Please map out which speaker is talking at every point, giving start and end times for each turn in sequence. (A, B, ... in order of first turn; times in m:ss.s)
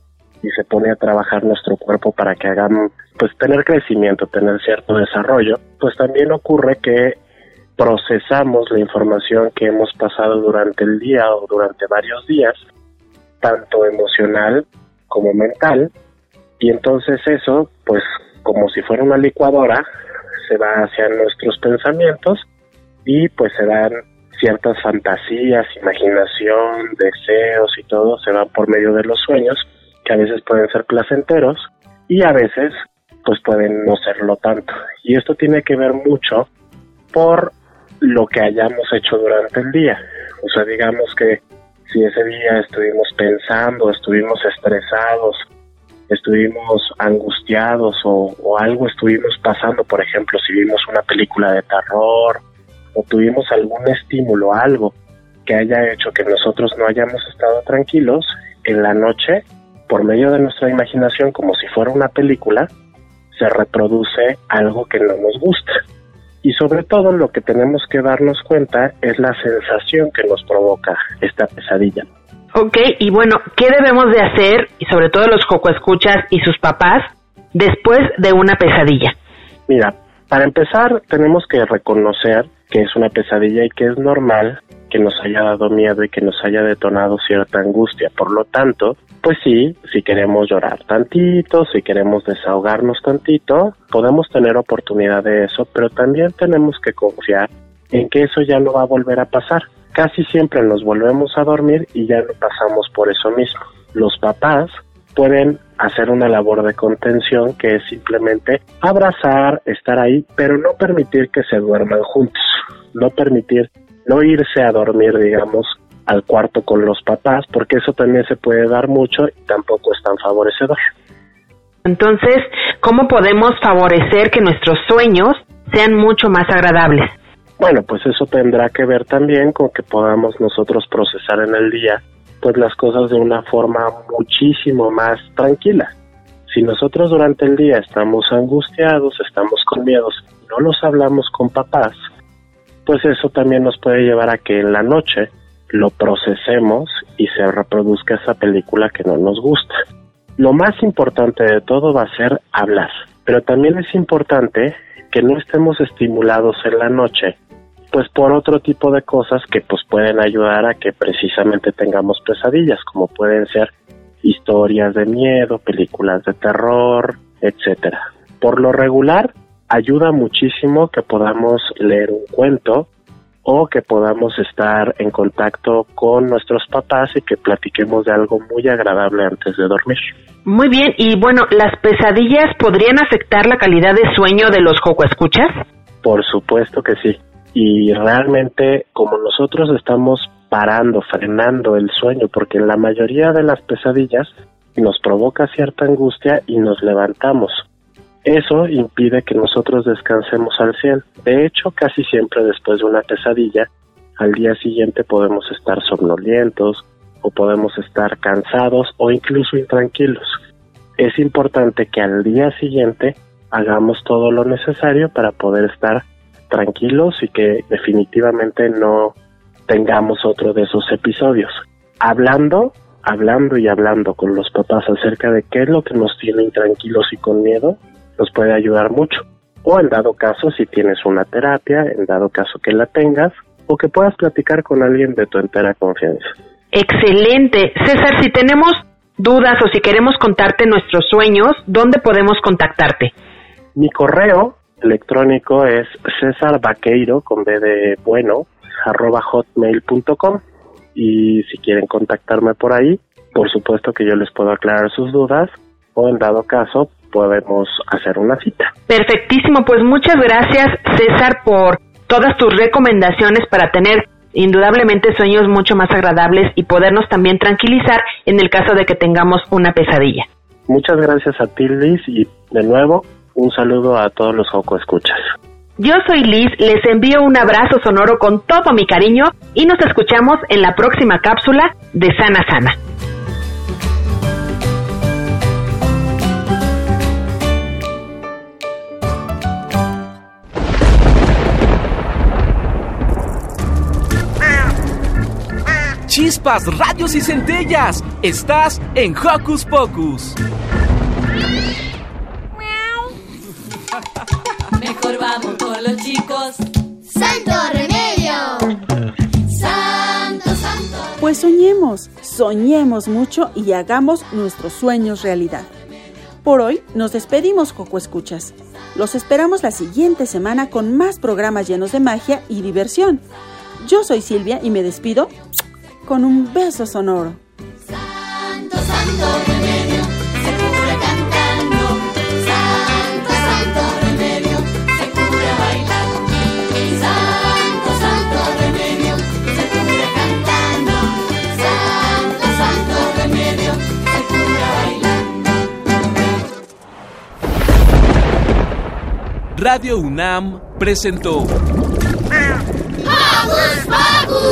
0:00.4-0:07.2 A
0:07.8-0:12.6 A
0:13.4-0:15.9 A
0:16.6-0:19.9 A
0:20.5-0:22.4 A
0:23.0-0:36.5 A
0:37.1-0:45.4 A
0:46.1-0:52.4 A
0:53.0-0:54.9 A
0:55.5-1:02.7 A
1:03.3-1:05.8 A
1:06.4-1:12.1 A
1:12.6-1:19.2 B
1:19.7-2:00.8 A
2:01.9-2:07.1 B
2:07.6-2:15.9 A
2:16.5-2:22.0 A
2:22.9-2:29.7 A
2:30.4-2:37.4 A
2:37.9-2:43.7 A
2:44.2-2:52.9 A
2:53.4-3:00.1 A
3:00.5-3:05.5 B
3:06.0-3:17.6 A
3:18.2-3:30.4 A
3:31.0-3:39.2 A
3:39.7-3:56.3 A
3:56.7-4:03.1 B
4:03.8-4:10.4 A
4:11.0-4:18.7 A
4:18.9-4:30.3 B
4:30.7-4:35.2 A
4:35.8-4:42.8 B
4:56.1-5:00.4 C
5:04.8-5:06.6 D
5:11.2-5:15.7 E
5:16.4-5:23.2 E
5:23.8-5:25.4 E
5:26.0-5:27.4 E
5:28.4-5:36.0 D
5:36.8-5:45.2 D
5:49.6-5:51.5 C